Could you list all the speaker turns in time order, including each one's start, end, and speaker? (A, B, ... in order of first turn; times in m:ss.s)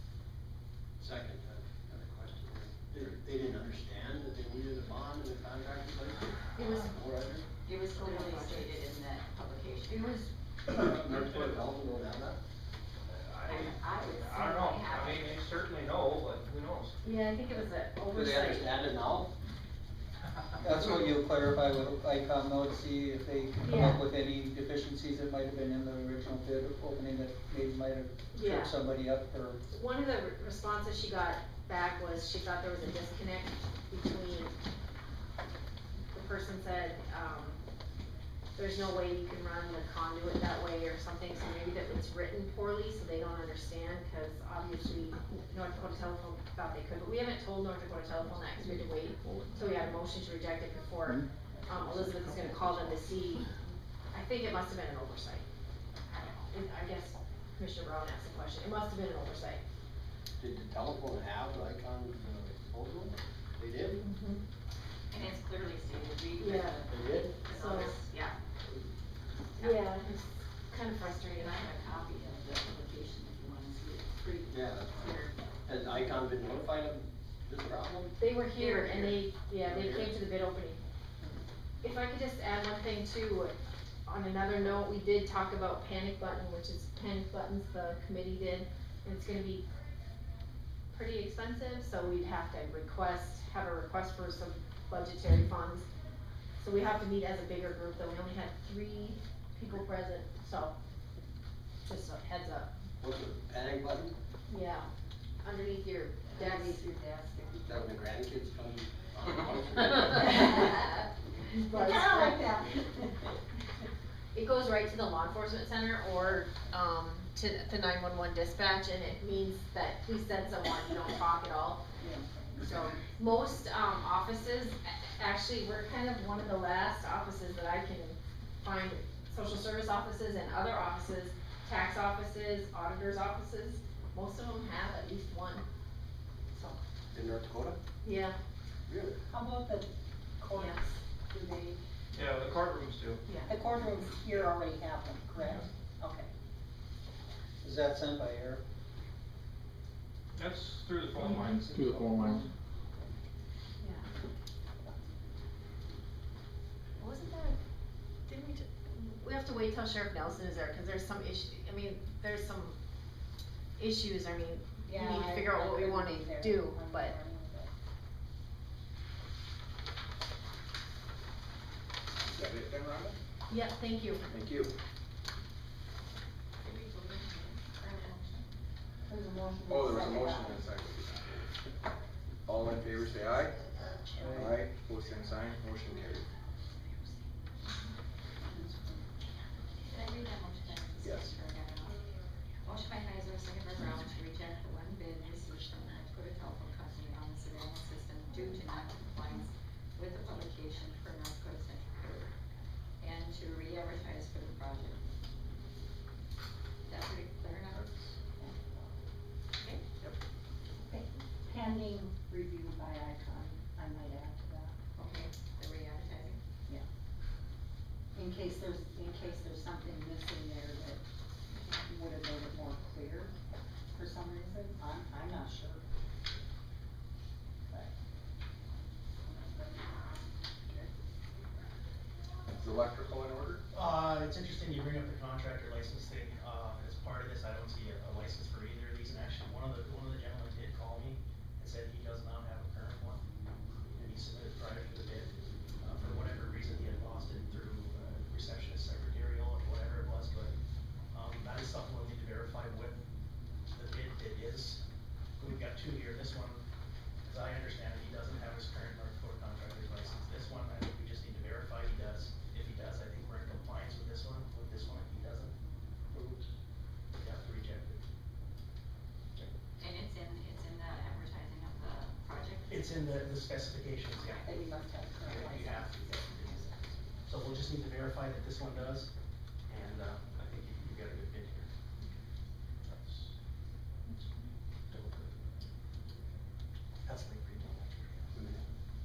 0:01.0-0:07.4 A
0:03.0-0:03.6 B
0:07.6-0:10.2 C
0:08.0-0:08.7 D
0:09.9-0:10.2 D
0:10.7-0:12.4 A
0:10.9-0:11.6 E
0:13.1-0:17.0 E
0:13.4-0:15.4 C
0:17.0-0:18.6 F
0:18.1-0:19.3 A
0:20.6-0:29.6 G
0:23.6-0:23.9 F
0:28.3-0:28.7 F
0:29.7-0:34.5 F
0:36.1-0:37.6 F
0:38.6-0:53.4 F
0:52.3-0:52.8 G
0:54.1-0:55.4 F
0:56.1-0:59.6 F
1:00.4-1:04.0 A
1:04.1-1:04.4 F
1:05.1-1:08.4 C
1:06.4-1:06.8 F
1:06.9-1:07.4 A
1:07.5-1:07.9 F
1:09.6-1:09.9 C
1:09.6-1:11.6 F
1:11.2-1:15.4 C
1:14.5-1:20.2 A
1:18.2-1:20.8 F
1:21.8-1:23.5 F
1:24.0-1:29.6 F
1:30.9-1:35.9 F
1:36.6-1:40.7 F
1:41.8-1:42.7 F
1:43.0-1:44.1 A
1:44.5-1:44.9 F
1:45.4-1:46.7 F
1:46.3-1:47.8 D
1:47.6-1:50.7 A
1:51.7-1:52.4 F
1:51.7-1:53.3 D
1:54.3-2:01.8 F
2:02.0-2:03.0 D
2:02.6-2:15.6 F
2:16.5-2:16.8 D
2:17.1-2:17.8 A
2:18.0-2:18.4 F
2:18.9-2:19.2 A
2:19.3-2:21.8 D
2:22.1-2:23.2 E
2:23.4-2:26.3 D
2:27.6-2:28.6 G
2:30.3-2:32.1 E
2:31.5-2:32.4 G
2:37.0-2:37.6 F
2:38.3-2:42.7 F
2:43.8-2:47.1 F
2:44.8-2:47.7 D
2:46.2-2:46.9 B
2:52.2-2:53.2 B
2:53.5-2:54.2 F
2:54.3-2:54.7 B
2:56.6-2:58.4 C
2:59.1-3:00.6 D
2:59.7-3:01.6 B
3:02.4-3:03.6 B
3:04.2-3:04.6 G
3:04.4-3:06.3 B
3:08.4-3:09.0 D
3:09.8-3:12.1 C
3:11.0-3:11.3 B
3:12.6-3:22.3 C
3:23.0-3:25.0 C
3:26.9-3:27.8 C
3:28.4-3:28.9 D
3:29.6-3:29.8 C
3:30.8-3:34.7 D
3:34.9-3:36.4 C
3:38.1-3:41.0 D
3:41.7-3:43.3 D
3:43.9-3:45.8 D
3:52.6-3:53.6 B
3:53.7-4:03.2 H
4:04.0-4:05.3 H
4:05.8-4:10.5 H
4:11.1-4:13.0 H
4:13.7-4:14.8 H
4:15.4-4:16.6 H
4:17.2-4:25.5 H
4:27.2-4:28.0 H
4:29.8-4:33.1 C
4:32.7-4:34.5 H
4:34.4-4:36.2 D
4:35.2-4:36.7 H
4:35.3-4:35.8 C
4:37.2-4:39.1 H
4:39.7-4:41.7 H
4:42.9-4:43.3 H
4:44.9-4:45.5 H
4:47.0-4:48.4 H
4:48.3-4:48.6 A